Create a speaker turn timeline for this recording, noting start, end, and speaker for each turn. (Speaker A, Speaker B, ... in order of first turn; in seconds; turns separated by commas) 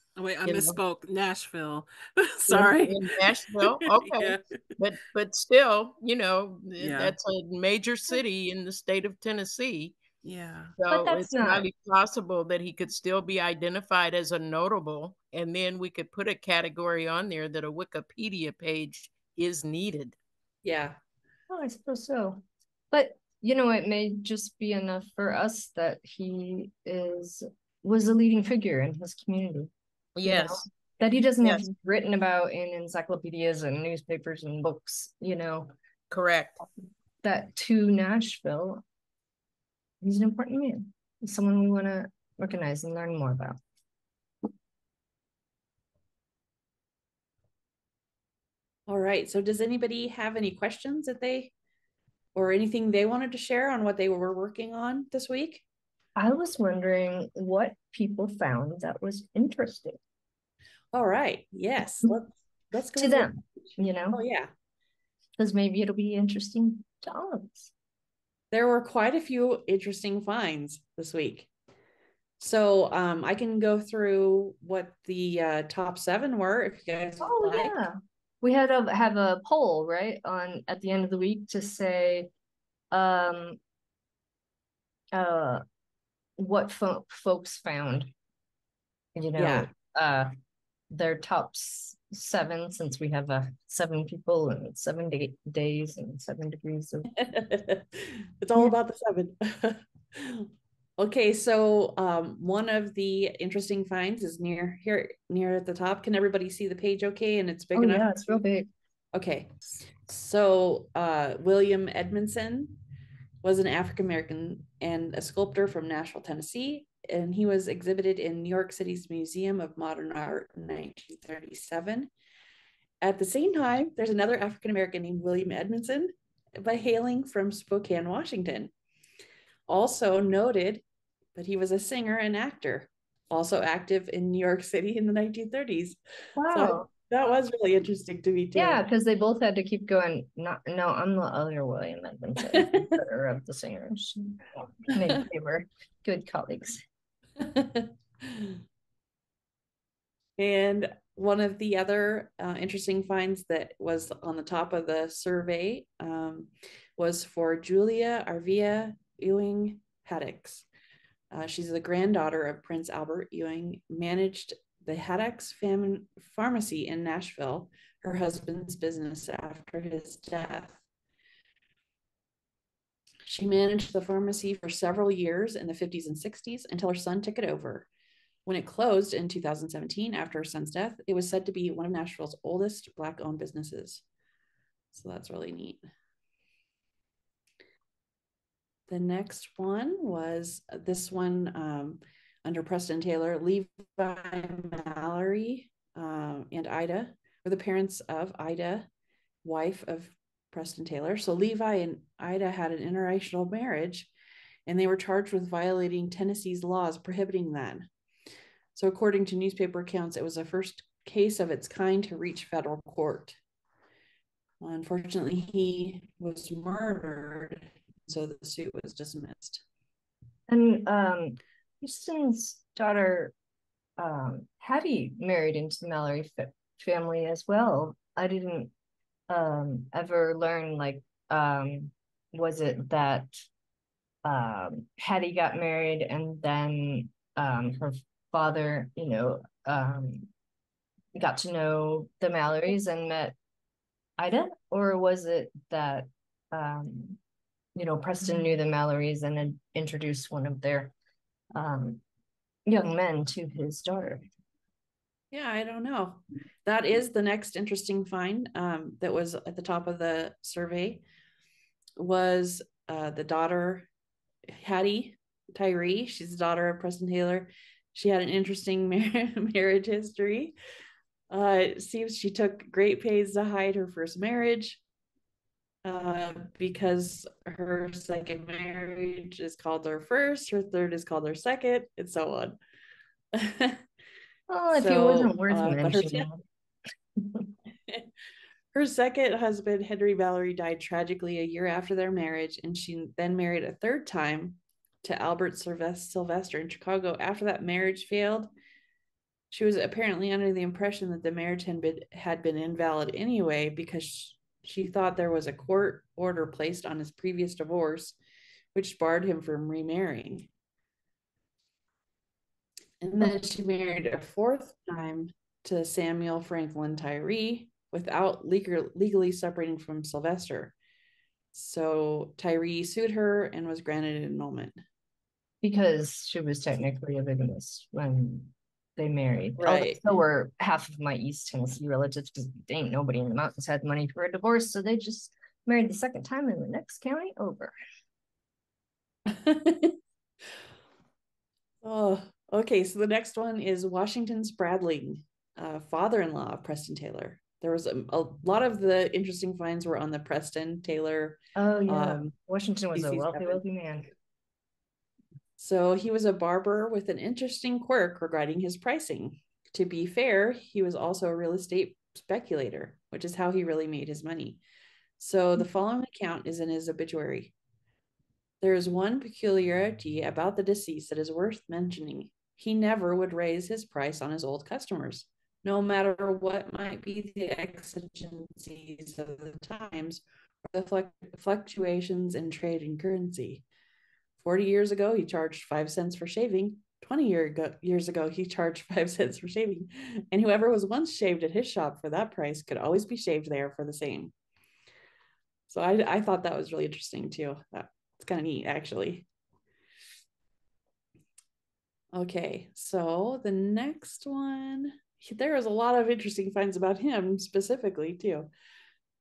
Speaker A: 0.2-4.4, Speaker B: 0.5-0.8, Speaker B: 2.5-10.0, Speaker A: 6.8-7.1, Speaker A: 10.2-10.7, Speaker B: 10.8-20.2, Speaker C: 10.9-11.7, Speaker D: 20.6-21.0, Speaker C: 21.5-29.7, Speaker B: 30.2-30.6, Speaker C: 30.2-35.7, Speaker B: 36.1-36.6, Speaker C: 37.2-38.8, Speaker C: 40.0-43.6, Speaker D: 48.9-51.5, Speaker D: 52.4-55.6, Speaker C: 56.2-60.0, Speaker D: 60.9-63.4, Speaker C: 63.0-64.2, Speaker D: 64.1-64.5, Speaker C: 65.4-67.7, Speaker D: 68.5-71.5, Speaker D: 72.4-77.8, Speaker C: 77.2-82.3, Speaker C: 82.9-83.6, Speaker C: 85.1-85.6, Speaker C: 86.4-88.1, Speaker C: 89.2-90.3, Speaker D: 89.4-89.7, Speaker C: 90.9-97.1, Speaker D: 97.2-108.3, Speaker C: 107.8-108.7, Speaker D: 109.1-109.5, Speaker D: 110.1-112.8, Speaker D: 113.4-122.1, Speaker D: 123.0-128.7, Speaker D: 129.7-130.8, Speaker D: 131.3-138.8, Speaker C: 136.4-136.9, Speaker C: 138.6-146.8, Speaker D: 142.5-142.9, Speaker D: 147.4-148.6, Speaker D: 150.4-160.7, Speaker D: 161.3-170.8, Speaker D: 173.3-177.9, Speaker D: 178.5-184.0, Speaker D: 184.9-185.8, Speaker D: 188.9-198.9, Speaker D: 199.4-204.1, Speaker D: 204.7-207.9, Speaker D: 208.8-213.4, Speaker D: 214.6-219.6, Speaker C: 220.5-223.3, Speaker C: 224.0-228.7, Speaker C: 229.3-233.3, Speaker C: 234.2-240.3, Speaker C: 241.2-243.3, Speaker C: 244.2-247.2, Speaker C: 247.8-250.9, Speaker C: 251.6-252.0, Speaker C: 252.7-254.2, Speaker D: 255.3-261.0, Speaker D: 262.0-263.9, Speaker D: 264.5-270.6, Speaker D: 271.3-274.8, Speaker D: 275.9-282.6, Speaker D: 283.3-283.8, Speaker C: 284.5-286.4, Speaker D: 284.7-286.3, Speaker C: 287.2-287.5, Speaker D: 288.7-298.5, Speaker D: 299.5-308.2, Speaker D: 308.7-310.5, Speaker D: 313.0-320.7, Speaker D: 321.5-324.8, Speaker C: 325.6-337.7, Speaker D: 329.6-330.0, Speaker D: 339.3-340.0, Speaker D: 341.8-352.3, Speaker C: 351.6-354.1, Speaker D: 352.9-353.6, Speaker D: 355.6-364.6, Speaker D: 365.2-367.5, Speaker D: 368.6-383.7, Speaker D: 384.4-394.3, Speaker D: 395.7-399.3, Speaker D: 402.1-408.5